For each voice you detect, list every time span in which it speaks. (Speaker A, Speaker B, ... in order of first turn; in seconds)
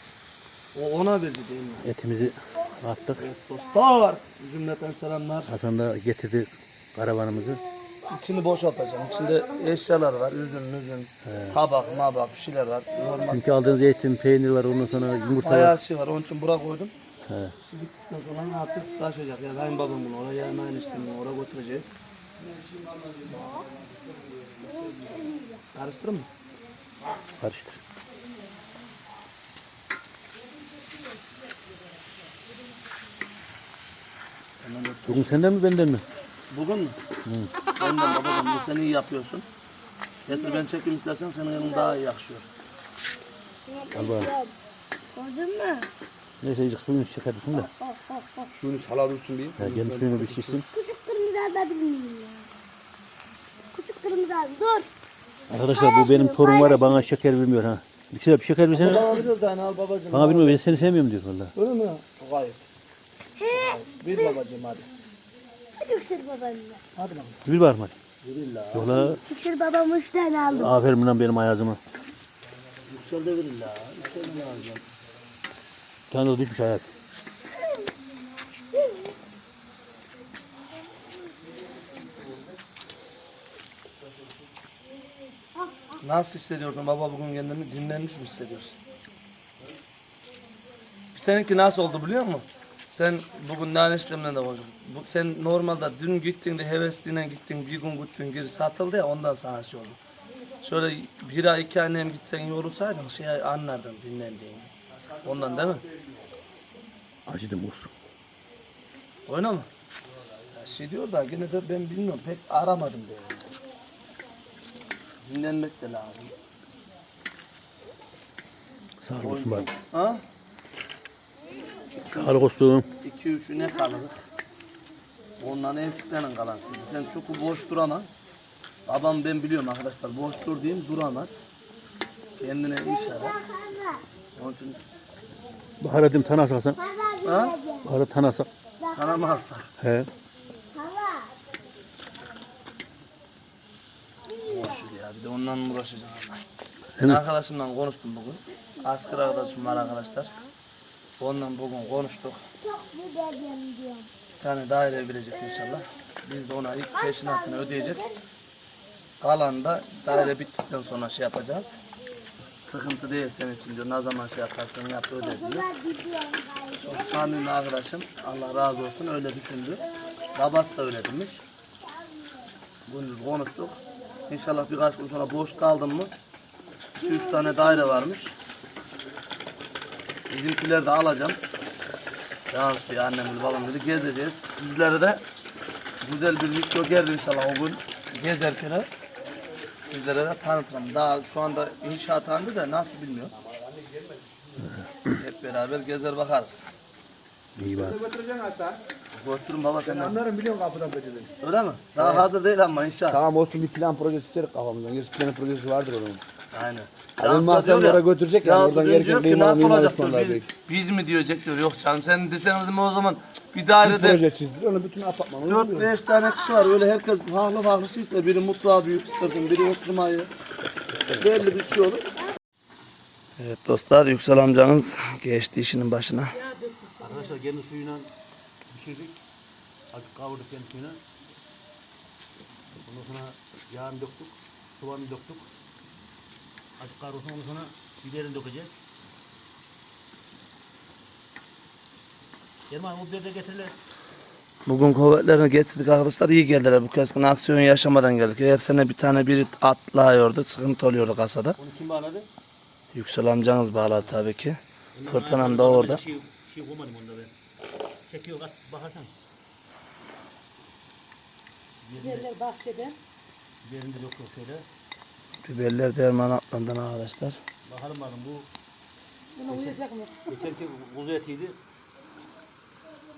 Speaker A: 0.7-1.9, 3.2-5.5, 8.1-13.4, 15.4-16.9, 17.7-22.0, 25.7-26.3, 34.6-35.4, 36.5-37.0, 37.7-39.5, 40.2-42.5, 58.7-60.9, 61.5-62.6, 63.4-64.9, 66.9-67.4, 68.2-69.2, 72.9-74.8, 86.0-88.8, 91.1-100.0, 100.6-104.7, 105.2-105.8, 109.3-109.7, 110.5-113.5, 115.2-116.3, 119.2-120.2, 122.1-122.4, 123.0-124.2, 125.4-128.1, 128.8-131.4, 132.4-133.4, 134.3-134.8, 137.2-137.6, 138.9-139.7, 144.3-146.4, 147.0-150.3, 151.2-152.4, 154.4-158.1, 159.2-161.8, 162.6-165.7, 166.8-171.4, 172.9-176.1, 177.0-178.3, 180.3-181.4, 182.5-185.2, 186.0-188.9, 189.8-193.3, 195.1-196.7, 199.2-200.2, 201.4-203.2, 206.5-214.2, 215.4-220.3, 221.2-222.1, 223.4-226.3, 244.7-251.6, 252.9-256.0, 265.4-267.4
Speaker B: 1.8-3.3, 5.5-7.6, 11.2-11.6, 13.2-15.8, 17.2-17.6, 27.4-27.8, 35.1-36.0, 37.2-37.5, 43.9-44.3, 46.4-47.7, 49.6-50.6, 55.5-59.2, 60.1-61.5, 67.4-68.0, 68.7-69.2, 70.5-71.8, 76.1-76.9, 107.3-107.9, 119.0-119.7, 122.1-122.9, 135.8-136.8, 137.8-138.5, 139.8-140.1, 147.0-147.2, 197.6-198.0, 220.9-221.3, 227.0-228.1, 228.7-229.2, 229.9-231.0, 232.8-235.5, 236.8-238.7, 242.7-243.8, 251.6-252.3, 254.9-257.3, 258.1-259.1, 261.8-262.3, 263.6-264.7, 267.7-268.5, 269.5-271.6
Speaker C: 22.4-25.3, 48.5-50.6, 193.3-194.8, 197.7-198.8, 199.8-201.3, 201.9-202.3, 203.1-206.2, 207.2-210.4, 213.8-215.9
Speaker D: 25.1-25.6, 43.7-44.5, 45.1-45.9, 47.8-48.5, 50.7-52.5, 53.7-54.9, 55.7-57.1, 63.4-64.3, 65.8-66.8, 69.2-70.7, 132.8-134.0, 136.8-137.9, 138.8-139.4, 140.7-141.3, 152.6-154.1, 156.9-158.1, 165.2-167.5, 170.0-170.4, 171.8-172.6
Speaker E: 226.3-227.4, 262.0-262.9, 269.4-270.4